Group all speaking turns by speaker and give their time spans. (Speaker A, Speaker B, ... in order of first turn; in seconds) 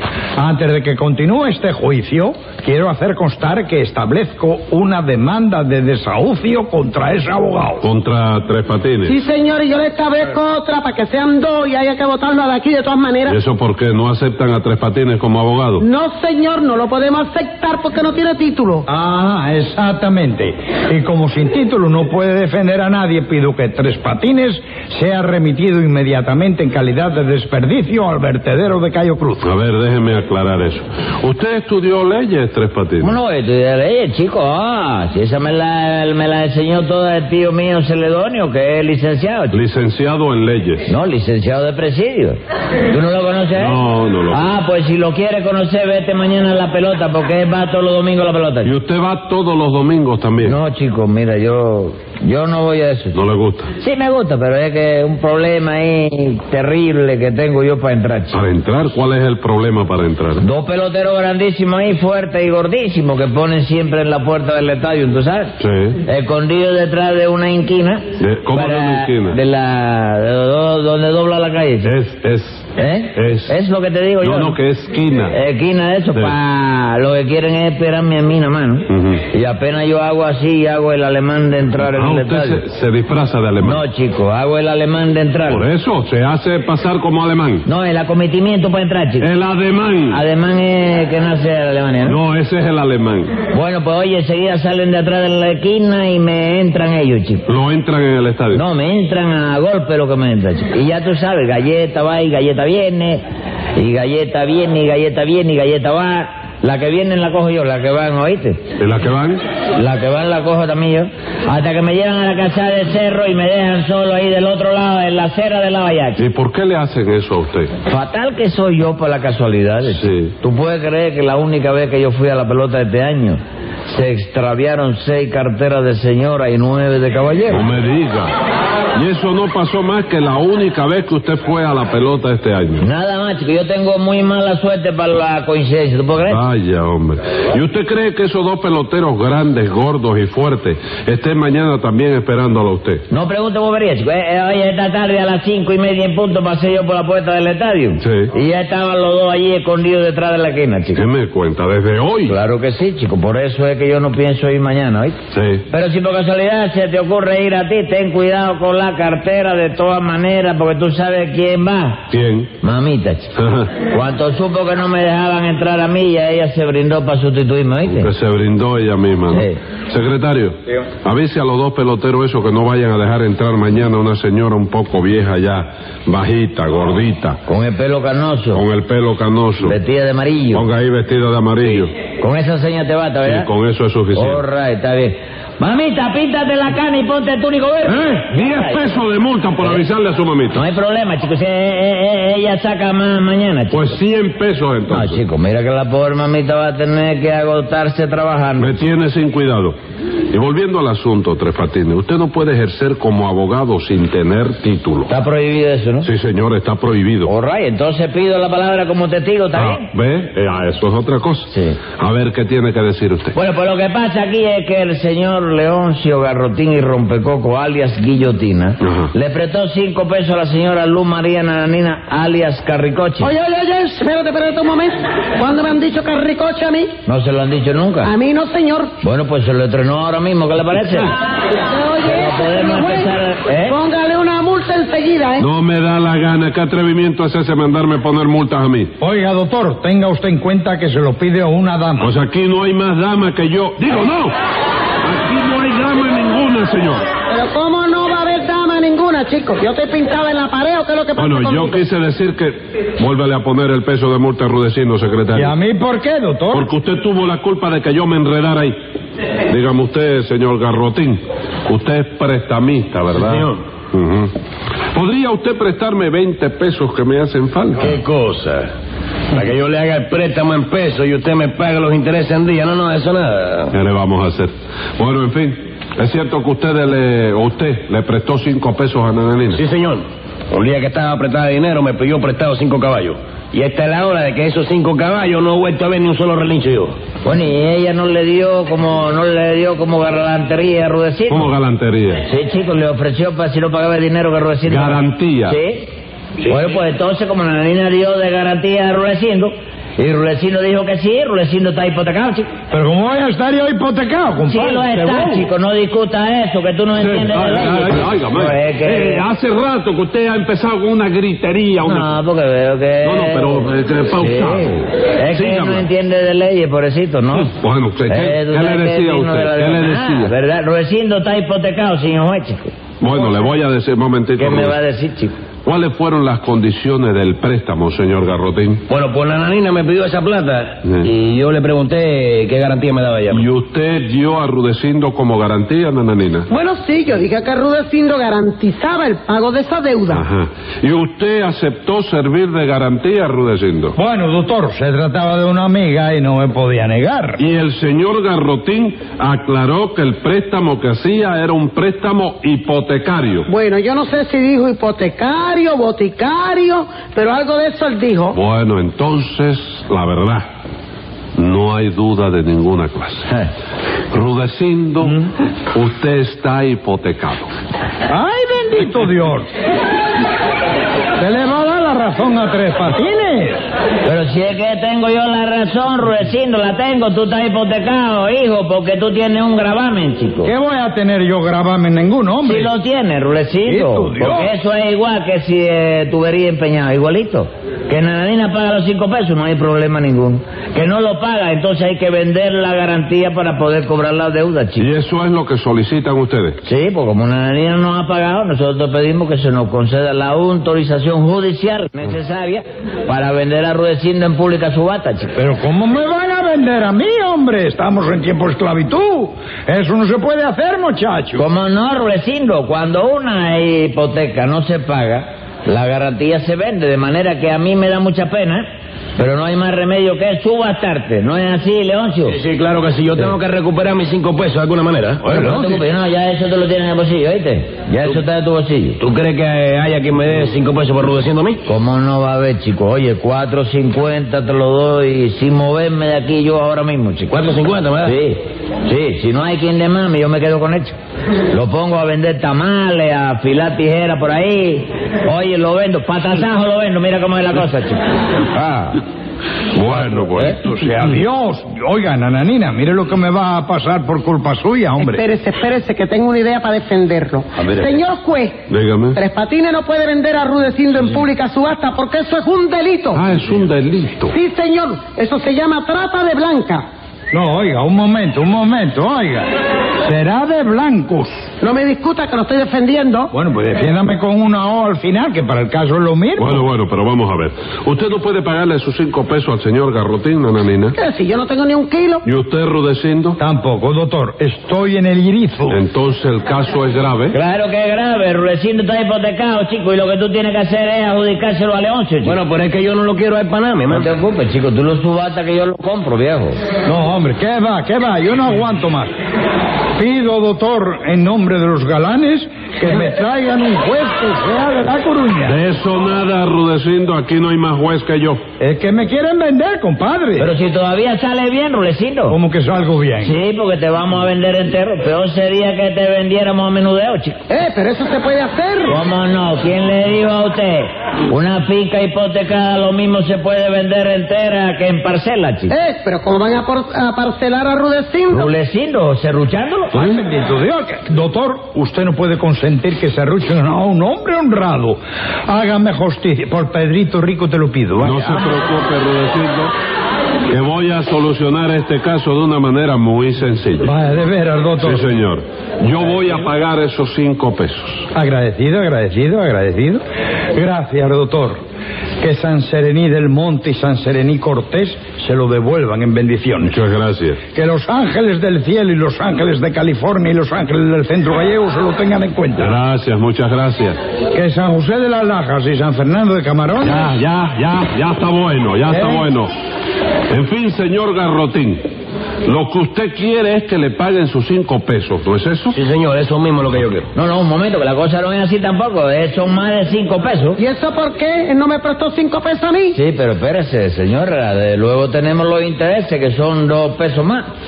Speaker A: 0.4-7.8, 18.9-29.5, 239.0-242.1, 255.3-256.7, 302.7-305.4, 343.9-347.4, 368.1-369.5, 371.2-373.6, 380.4-382.7, 383.6-384.5, 405.4-411.4, 448.7-448.9, 450.1-455.2, 457.6-457.9, 467.3-469.5, 470.0-471.5, 473.3-476.6, 483.4-485.8, 496.9-499.1, 500.0-505.6, 508.6-510.5, 512.3-513.4, 529.9-538.5, 543.8-545.2, 548.1-550.0, 550.5-551.6, 552.2-556.7, 557.5-562.7, 564.3-567.1
Speaker B: 7.8-9.2, 13.3-15.8, 29.4-33.1, 39.5-40.9, 43.5-44.5, 48.6-50.5, 53.1-53.7, 58.3-60.4, 65.6-66.0, 68.2-69.4, 71.8-73.5, 74.2-75.3, 78.9-79.2, 81.8-83.8, 85.5-87.6, 89.2-90.2, 92.0-93.3, 97.5-98.6, 108.8-109.4, 116.2-117.7, 119.8-120.3, 127.5-128.3, 128.9-132.8, 136.3-143.0, 148.0-148.3, 150.9-152.3, 155.3-155.6, 162.1-162.5, 163.3-163.7, 168.0-177.4, 178.5-179.8, 180.5-181.9, 183.2-184.4, 187.8-190.6, 193.7-195.2, 198.6-199.8, 200.3-205.1, 206.0-207.3, 209.5-213.3, 218.8-219.1, 235.3-238.9, 242.0-244.3, 245.0-247.1, 251.2-255.5, 256.5-258.7, 259.5-264.3, 264.9-268.0, 273.7-279.6, 291.3-292.2, 294.6-295.6, 307.0-312.2, 313.0-314.7, 315.3-315.9, 317.4-320.3, 323.0-324.8, 325.6-328.8, 333.3-336.5, 340.1-343.9, 347.4-353.5, 358.3-360.5, 361.3-363.5, 364.1-367.5, 394.8-396.6, 449.7-450.9, 458.7-459.2, 463.1-464.4, 476.4-481.0, 482.2-483.4, 485.7-487.4, 505.4-508.4, 538.0-539.7, 540.5-543.9, 544.8-548.1, 556.6-557.4, 562.6-564.0, 566.8-569.5, 570.3-571.8, 572.4-575.8
Speaker C: 9.1-13.3, 15.8-18.8, 223.2-226.9, 228.0-228.9, 231.6-233.1, 233.7-235.4, 247.3-251.8, 336.5-340.2, 353.5-358.3, 455.0-458.6, 459.1-463.2, 464.3-466.8, 471.6-473.3, 481.0-482.2, 517.5-519.0, 525.7-528.5, 580.6-583.0
Speaker D: 33.0-39.6, 40.9-42.4, 42.9-43.8, 44.3-48.7, 50.4-53.1, 53.8-58.4, 60.4-65.5, 66.0-71.9, 72.8-74.5, 75.3-82.6, 83.6-85.7, 87.7-89.3, 90.1-92.2, 93.5-97.4, 98.5-103.2, 103.8-108.6, 109.8-116.2, 117.9-127.7, 132.8-136.4, 143.1-151.0, 152.3-155.2, 155.7-162.0, 162.6-163.3, 163.9-168.1, 177.5-178.6, 179.6-180.6, 182.2-183.5, 184.1-188.9, 190.5-193.9, 194.9-198.8, 205.1-206.1, 207.2-209.9, 211.5-211.8, 213.3-223.3, 227.1-228.1, 229.0-231.1, 232.0-233.8, 287.2-291.5, 292.2-295.9, 296.5-302.5, 304.5-309.2, 311.8-317.5, 318.1-322.7, 324.4-325.4, 374.0-380.5, 382.4-394.9, 396.6-405.3, 411.4-418.6, 419.2-422.4, 425.3-429.0, 431.7-437.4, 438.0-440.9, 441.5-448.0, 487.3-492.4, 493.9-496.6, 510.4-512.4, 513.2-517.4, 518.9-525.7, 528.3-529.9, 577.1-580.6, 582.9-587.5
Speaker E: 263.1-263.6, 267.8-268.7, 269.3-273.7, 279.5-286.9, 328.9-333.5, 422.3-425.8, 429.0-431.6, 437.3-438.1, 492.2-494.1, 575.7-577.1